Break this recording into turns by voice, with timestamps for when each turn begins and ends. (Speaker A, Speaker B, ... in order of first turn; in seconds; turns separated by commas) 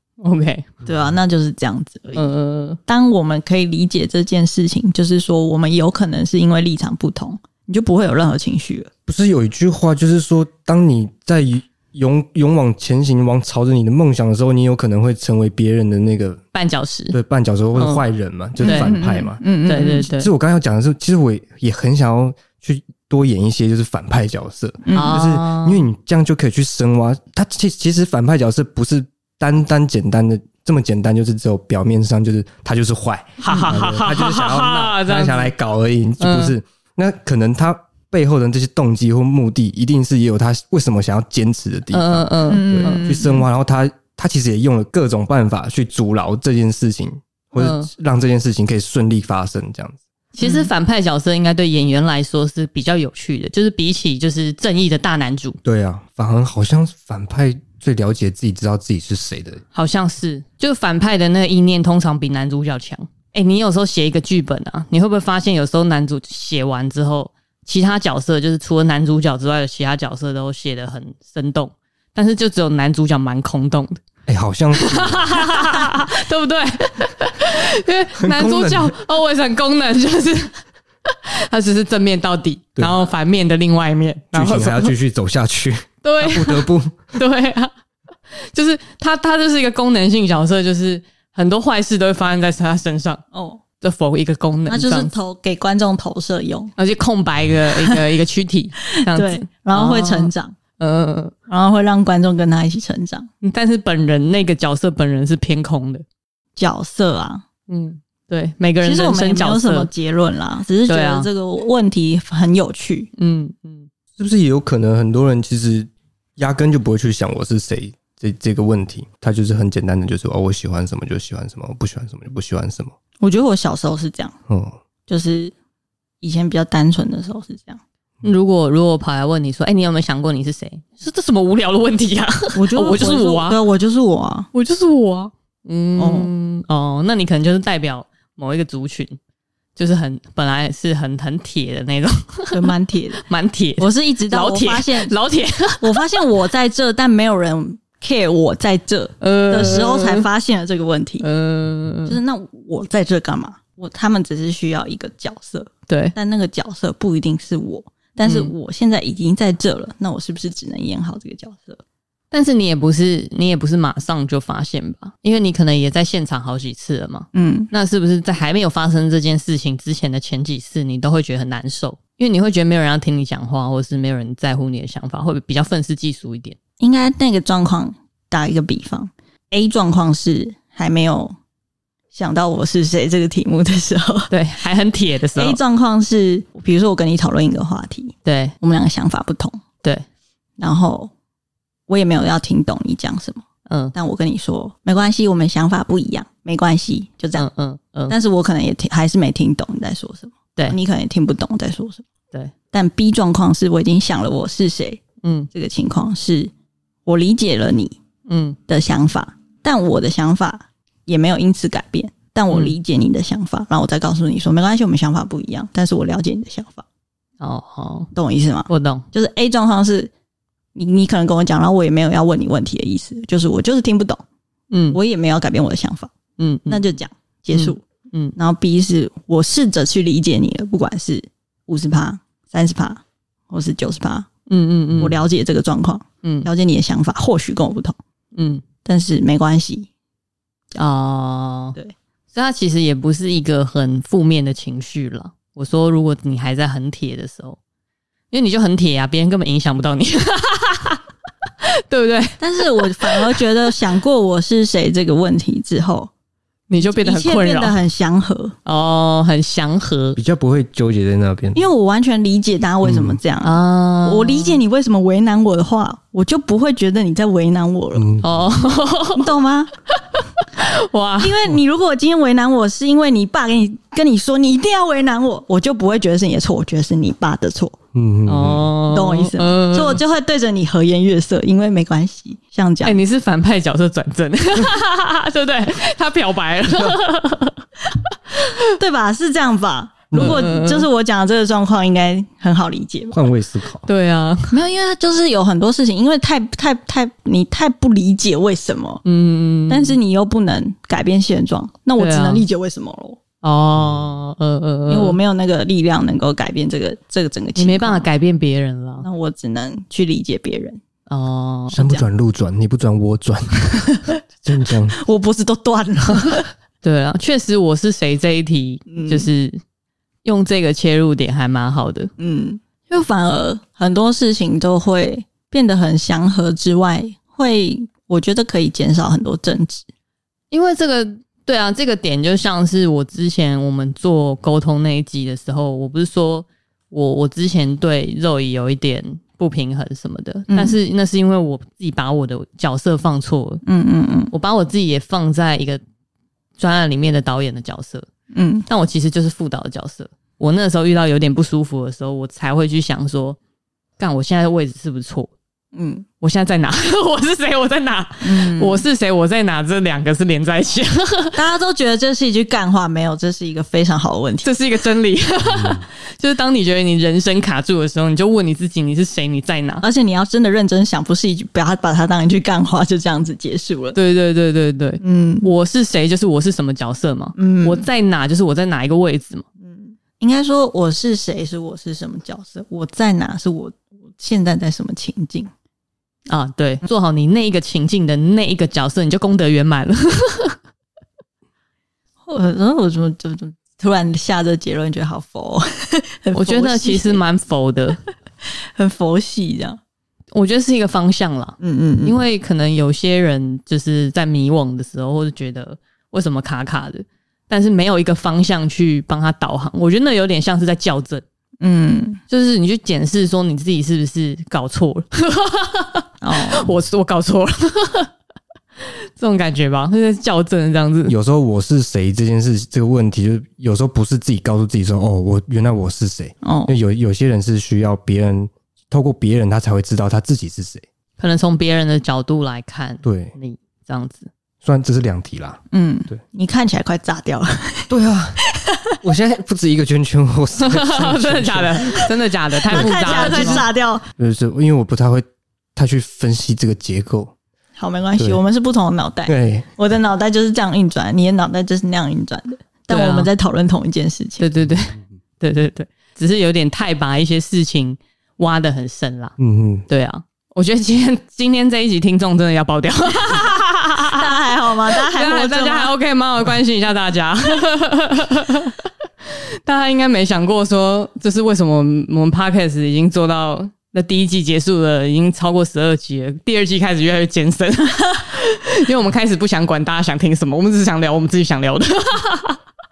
Speaker A: 0.2-0.7, Speaker B: 0.9-2.2, Speaker A: 2.1-2.8, Speaker B: 2.9-8.9, Speaker C: 9.1-16.4, Speaker A: 16.5-17.2, Speaker C: 17.1-19.4, Speaker A: 17.8-18.0, Speaker A: 18.6-19.0, Speaker B: 18.6-20.1, Speaker A: 19.6-20.3, Speaker C: 20.1-50.0, Speaker B: 24.8-25.2, Speaker A: 24.9-25.8, Speaker A: 33.4-35.5, Speaker B: 33.5-33.7, Speaker A: 36.2-36.5, Speaker A: 41.9-43.1, Speaker B: 42.5-43.5, Speaker A: 47.6-47.9, Speaker A: 50.4-55.6, Speaker B: 50.4-50.7, Speaker C: 55.6-59.6, Speaker A: 59.7-74.0, Speaker C: 74.3-75.4, Speaker A: 74.8-84.9, Speaker C: 78.2-78.9, Speaker C: 84.3-87.2, Speaker A: 86.0-87.7, Speaker A: 88.5-93.2, Speaker B: 93.3-93.6, Speaker A: 93.8-95.1, Speaker B: 94.7-96.7, Speaker A: 96.8-101.3, Speaker B: 98.9-100.5, Speaker B: 101.5-103.3, Speaker A: 103.4-106.0, Speaker B: 106.6-107.4, Speaker A: 107.7-109.9, Speaker B: 108.8-113.1, Speaker A: 110.9-111.3, Speaker A: 113.2-113.9, Speaker C: 114.2-123.0, Speaker B: 123.2-124.4, Speaker C: 124.5-124.8, Speaker B: 125.1-125.5, Speaker B: 126.2-127.8, Speaker A: 128.2-133.6, Speaker B: 132.6-134.5, Speaker A: 134.5-139.2, Speaker B: 136.0-136.3, Speaker A: 139.8-142.7, Speaker B: 142.5-143.2, Speaker A: 143.2-146.2, Speaker B: 143.8-145.1, Speaker B: 145.8-151.3, Speaker A: 149.2-150.3, Speaker A: 151.2-152.2, Speaker B: 152.1-161.8, Speaker A: 155.9-156.2, Speaker A: 158.2-158.5, Speaker A: 162.3-176.6, Speaker B: 167.3-167.7, Speaker B: 176.8-181.3, Speaker B: 182.1-184.3, Speaker A: 184.3-185.6, Speaker B: 185.4-189.6, Speaker A: 188.2-188.6, Speaker B: 190.6-191.1, Speaker B: 191.9-197.5, Speaker A: 193.7-193.9, Speaker A: 197.4-198.2, Speaker B: 198.1-202.1, Speaker B: 202.7-205.0, Speaker A: 205.2-205.5, Speaker B: 205.5-206.5, Speaker B: 207.1-208.0, Speaker A: 208.3-208.6, Speaker B: 208.7-216.8, Speaker A: 217.4-218.1, Speaker B: 218.2-220.1, Speaker A: 218.7-219.1, Speaker B: 220.8-224.2, Speaker A: 224.7-225.0, Speaker B: 224.9-226.1, Speaker A: 226.4-226.8, Speaker B: 226.7-227.8, Speaker A: 227.5-228.3, Speaker B: 228.4-234.3, Speaker A: 234.5-235.1, Speaker B: 235.0-238.0, Speaker A: 236.2-236.5, Speaker A: 238.3-238.6, Speaker B: 238.8-239.9, Speaker A: 240.8-241.8, Speaker A: 242.3-247.6, Speaker A: 248.3-251.0, Speaker A: 251.9-253.4, Speaker B: 252.4-256.1, Speaker A: 256.7-257.8, Speaker B: 256.8-258.6, Speaker A: 258.6-260.2, Speaker C: 260.2-261.7, Speaker B: 261.6-268.1, Speaker C: 262.8-263.2, Speaker A: 263.4-264.6, Speaker C: 267.9-268.5, Speaker A: 268.2-269.3, Speaker B: 269.1-269.7, Speaker A: 269.9-271.4, Speaker B: 271.2-277.8, Speaker C: 277.9-278.7, Speaker A: 278.3-280.0, Speaker B: 278.9-283.0, Speaker A: 282.8-287.6, Speaker A: 288.3-288.6, Speaker B: 288.8-293.2, Speaker C: 290.1-290.4, Speaker A: 290.1-290.9, Speaker C: 293.1-293.9, Speaker A: 293.9-294.6, Speaker B: 294.5-299.0, Speaker A: 299.1-300.0, Speaker B: 299.7-303.2, Speaker A: 302.0-302.4, Speaker A: 303.4-305.2, Speaker C: 303.8-304.1, Speaker B: 304.9-308.1, Speaker A: 307.6-309.1, Speaker B: 309.0-310.8, Speaker A: 311.1-311.8, Speaker C: 311.7-315.0, Speaker B: 311.8-312.1, Speaker B: 315.0-316.5, Speaker A: 316.8-319.6, Speaker B: 318.9-319.3, Speaker A: 320.2-322.1, Speaker B: 322.2-329.9, Speaker A: 330.5-343.6, Speaker B: 340.5-340.8, Speaker B: 343.6-344.3, Speaker A: 344.3-345.8, Speaker A: 346.6-348.1, Speaker B: 348.3-348.7, Speaker A: 348.7-353.4, Speaker A: 354.0-355.3, Speaker B: 355.7-356.1, Speaker A: 356.2-361.4, Speaker B: 358.2-358.8, Speaker B: 361.4-364.5, Speaker A: 364.4-369.9, Speaker C: 365.5-365.8, Speaker B: 369.8-374.0, Speaker A: 373.9-379.4, Speaker B: 375.0-375.5, Speaker B: 377.4-377.9, Speaker B: 379.6-385.5, Speaker A: 386.3-390.6, Speaker B: 392.3-397.2, Speaker A: 396.3-398.0, Speaker B: 398.8-399.8, Speaker A: 400.3-411.2, Speaker B: 401.6-402.2, Speaker B: 411.6-412.2, Speaker A: 412.3-418.1, Speaker B: 416.2-416.7, Speaker A: 418.8-421.1, Speaker C: 421.1-430.9, Speaker B: 426.4-426.7, Speaker A: 431.2-434.3, Speaker C: 433.0-433.3, Speaker C: 434.6-435.6, Speaker B: 435.7-437.9, Speaker C: 437.9-438.4, Speaker B: 438.5-438.9, Speaker C: 439.0-442.1, Speaker A: 440.6-443.7, Speaker B: 442.7-444.0, Speaker C: 442.7-443.7, Speaker C: 444.2-445.2, Speaker C: 445.8-447.3, Speaker B: 447.8-454.5, Speaker C: 449.3-449.7, Speaker A: 452.9-453.3, Speaker A: 454.4-459.4, Speaker C: 459.4-459.9, Speaker A: 459.9-464.3, Speaker B: 464.0-465.9, Speaker A: 464.9-468.8, Speaker A: 469.3-482.6